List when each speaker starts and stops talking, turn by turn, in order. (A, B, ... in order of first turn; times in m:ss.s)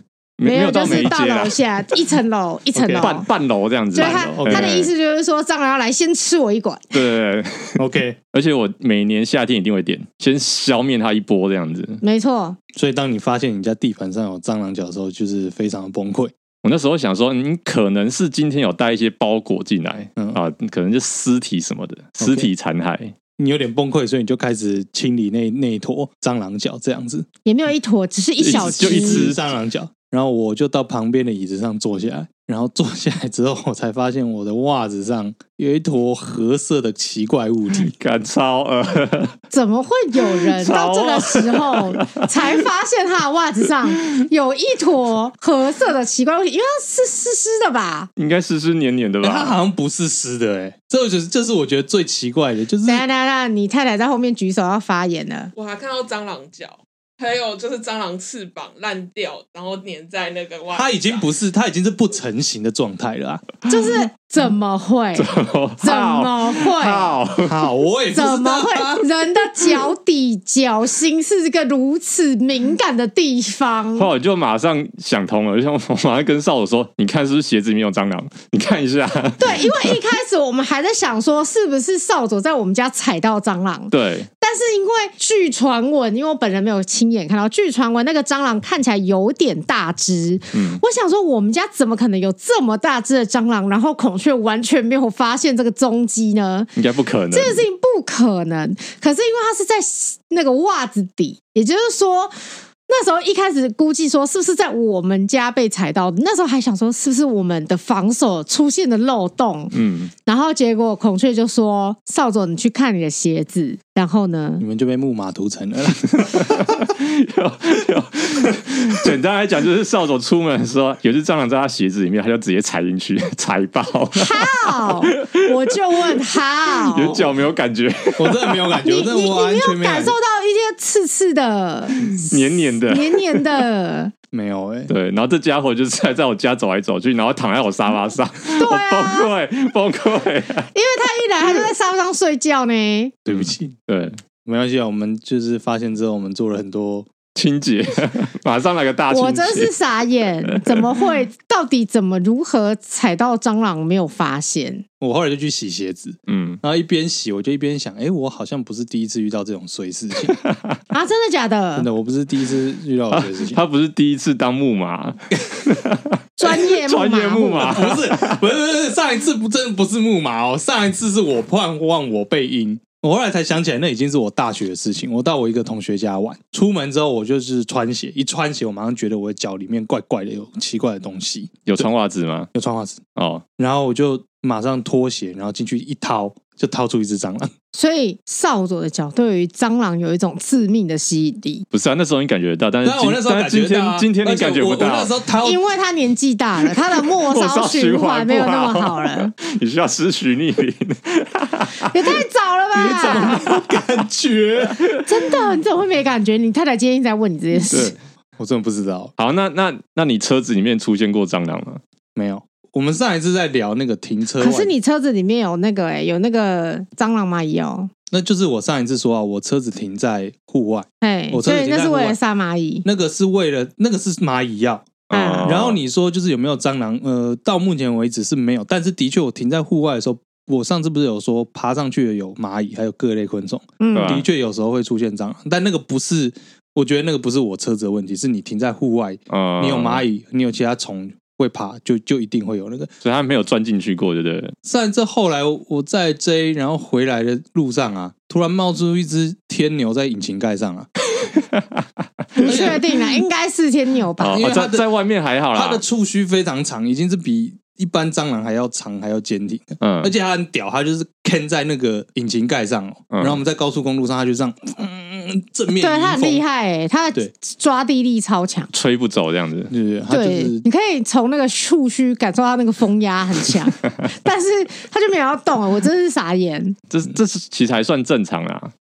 0:00.4-0:01.6 A
0:00.4-0:03.3 B
0:02.7-0:03.1 C
0:03.0-0:04.9 A
0:03.9-0:07.0 B
0:04.0-0:04.8 C
0:06.9-0:07.8 A
0:07.8-0:08.2 C
0:08.3-0:12.0 A
0:12.0-0:12.6 B
0:12.8-0:16.3 C
0:16.6-0:23.2 A
0:20.2-0:20.4 C
0:22.2-0:22.5 C
0:23.4-0:27.3 C
0:27.4-0:29.4 B
0:28.4-0:29.4 A
0:28.5-0:37.9 C
0:37.7-0:39.3 A
0:39.5-0:48.1 B
0:40.3-0:42.3 A
0:48.2-0:49.6 A
0:49.2-0:53.0 C
0:52.8-0:55.5 B
0:55.6-1:01.3 D
1:00.7-1:03.4 C
1:03.7-1:05.3 B
1:03.7-1:04.0 A
1:05.2-1:07.6 A
1:05.8-1:07.2 B
1:07.5-1:09.1 C
1:08.1-1:14.1 B
1:14.0-1:20.0 A
1:19.4-1:36.7 B
1:23.9-1:24.3 A
1:30.5-1:30.8 A
1:36.8-1:37.6 A
1:37.3-1:42.3 B
1:42.9-1:49.7 B
1:49.7-1:50.1 A
1:50.3-1:54.6 B
1:54.6-1:56.7 C
1:56.2-2:08.7 A
2:04.1-2:07.3 B
2:08.2-2:10.1 C
2:08.8-2:14.1 B
2:12.1-2:13.6 A
2:14.3-2:14.9 C
2:14.9-2:20.7 A
2:18.6-2:19.3 B
2:20.8-2:23.2 B
2:23.2-2:23.7 C
2:23.3-2:24.2 A
2:24.4-2:27.1 C
2:27.4-2:29.7 A
2:29.1-2:34.8 B
2:30.4-2:31.1 A
2:35.0-2:40.4 C
2:36.3-2:36.6 A
2:40.4-2:40.8 A
2:40.9-2:41.9 B
2:41.8-2:43.6 C
2:43.1-2:48.4 A
2:46.4-2:47.8 B
2:47.6-3:01.9 C
3:01.7-3:02.5 A
3:02.5-3:03.0 C
3:03.2-3:03.4 A
3:03.6-3:07.5 C
3:07.7-3:11.7 B
3:11.7-3:15.2 A
3:12.8-3:15.6 C
3:15.4-3:19.3 B
3:17.2-3:22.2 A
3:21.8-3:23.4 B
3:22.8-3:24.9 C
3:23.4-3:23.6 A
3:25.0-3:28.0 B
3:27.7-3:28.0 A
3:28.4-3:29.1 C
3:29.2-3:31.8 A
3:32.2-3:34.7 C
3:34.4-3:37.9 B
3:38.1-3:42.2 C
3:41.0-3:42.8 B
3:42.8-4:02.9 C
3:45.1-3:45.8 A
3:45.1-3:45.5 B
3:53.8-3:54.2 B
3:53.9-3:54.3 A
3:59.3-4:00.0 A
4:03.0-4:04.5 A
4:04.6-4:10.9 C
4:11.4-4:11.8 A
4:12.4-4:12.8 A
4:12.4-4:14.4 B
4:12.4-4:12.8 C
4:14.2-4:15.8 A
4:14.2-4:14.9 C
4:15.5-4:26.4 C
4:19.8-4:20.1 A
4:23.1-4:23.4 A
4:25.8-4:28.7 B
4:28.7-4:29.7 A
4:29.7-4:30.6 C
4:30.1-4:36.8 B
4:36.9-4:38.7 A